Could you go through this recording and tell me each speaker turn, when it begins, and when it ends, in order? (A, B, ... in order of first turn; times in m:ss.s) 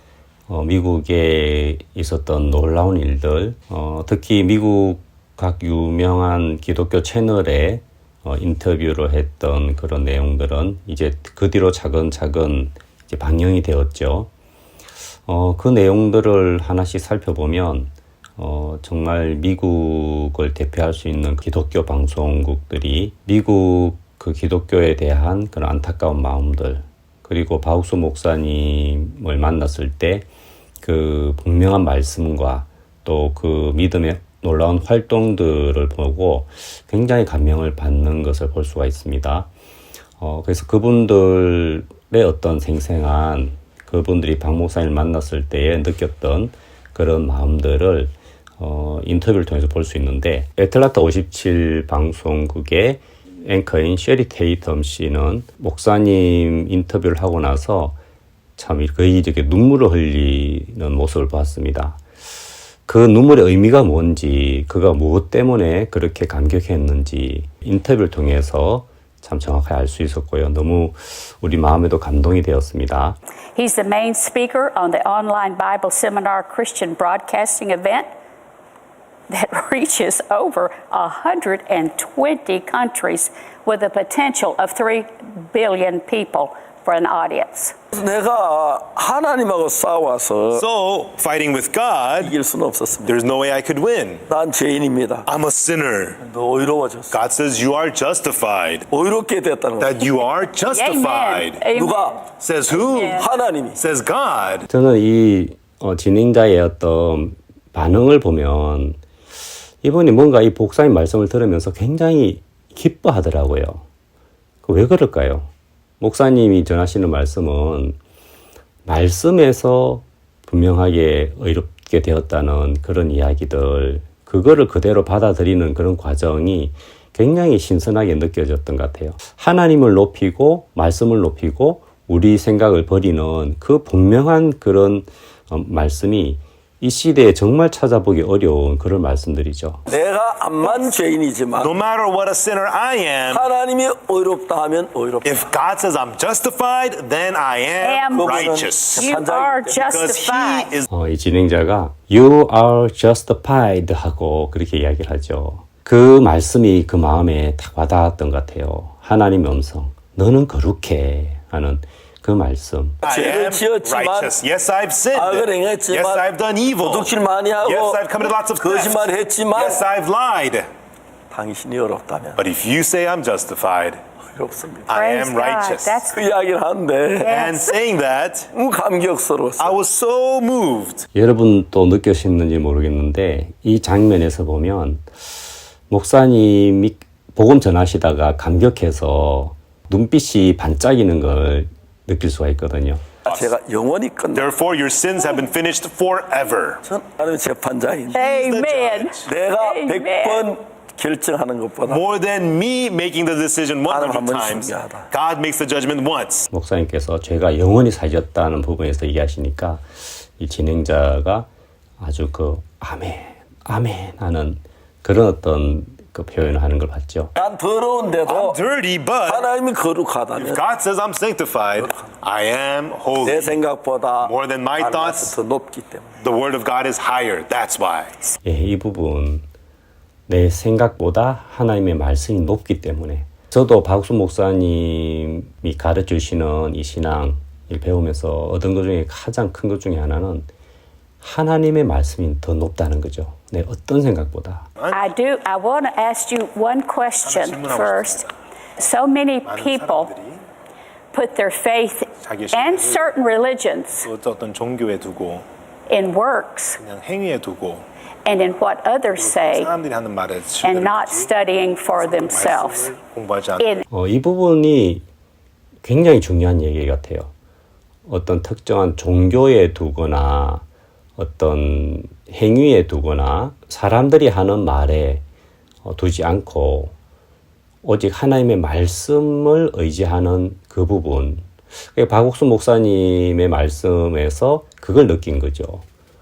0:00.5-0:14.3 A
0:15.3-0:30.3 A
0:30.8-0:39.5 A
0:40.2-0:58.0 A
0:58.6-1:02.0 A
1:02.9-1:13.2 A
1:13.6-1:18.1 B
1:19.3-1:27.8 B
1:27.9-1:30.6 C
1:30.5-1:32.4 D
1:32.2-1:33.1 C
1:33.0-1:34.2 D
1:34.3-1:35.3 C
1:35.3-1:36.2 D
1:36.2-1:37.2 C
1:37.1-1:38.9 D
1:38.9-1:40.0 C
1:39.8-1:41.7 D
1:40.6-1:42.2 B
1:41.7-1:43.8 C
1:42.4-1:43.2 D
1:42.8-1:43.2 B
1:43.7-1:44.7 D
1:44.7-1:49.0 A
1:49.8-1:53.8 A
1:54.6-1:55.5 A
1:56.0-1:58.0 A
1:58.9-2:19.8 A
2:19.9-2:21.7 C
2:21.6-2:23.5 D
2:23.3-2:25.3 C
2:25.2-2:29.1 D
2:27.8-2:28.3 B
2:28.1-2:29.8 C
2:28.9-2:30.8 B
2:29.8-2:30.9 D
2:30.9-2:43.0 A
2:43.0-2:44.3 C
2:43.0-2:50.7 D
2:45.1-2:46.2 C
2:46.8-2:49.8 C
2:51.3-2:52.4 C
2:52.4-2:54.0 D
2:54.3-2:54.9 C
2:54.9-2:56.0 D
2:54.9-2:56.2 B
2:56.1-2:57.3 C
2:57.2-2:57.8 B
2:57.2-2:58.5 D
2:58.5-2:59.8 C
2:59.6-3:01.0 D
3:01.1-3:05.0 A
3:05.9-3:13.1 A
3:13.2-3:13.5 D
3:13.3-3:14.5 C
3:14.3-3:16.8 D
3:16.9-3:18.2 C
3:18.1-3:20.5 B
3:18.2-3:19.3 D
3:19.2-3:22.0 C
3:21.9-3:26.5 D
3:23.9-3:25.1 C
3:26.5-3:31.5 A
3:32.0-3:37.3 A
3:37.4-3:38.6 C
3:38.3-3:39.5 D
3:39.3-3:40.6 C
3:40.4-3:43.6 D
3:43.2-3:46.2 C
3:44.2-3:45.4 D
3:46.2-3:48.2 D
3:48.4-3:49.5 A
3:50.3-4:00.5 A
4:01.2-4:04.7 A
4:04.8-4:05.1 D
4:04.9-4:08.3 B
4:07.2-4:08.3 D
4:08.8-4:10.1 B
4:09.5-4:10.4 D
4:11.1-4:14.1 B
4:12.2-4:13.1 D
4:14.0-4:15.5 D
4:15.9-4:16.8 B
4:16.8-4:17.9 D
4:18.2-4:19.7 B
4:19.2-4:21.3 D
4:20.6-4:23.0 B
4:22.0-4:23.8 D
4:23.9-4:25.0 A
4:25.8-4:27.3 A
4:28.1-4:30.6 A
4:31.2-4:35.2 A
4:35.8-4:36.9 A
4:37.8-4:45.8 A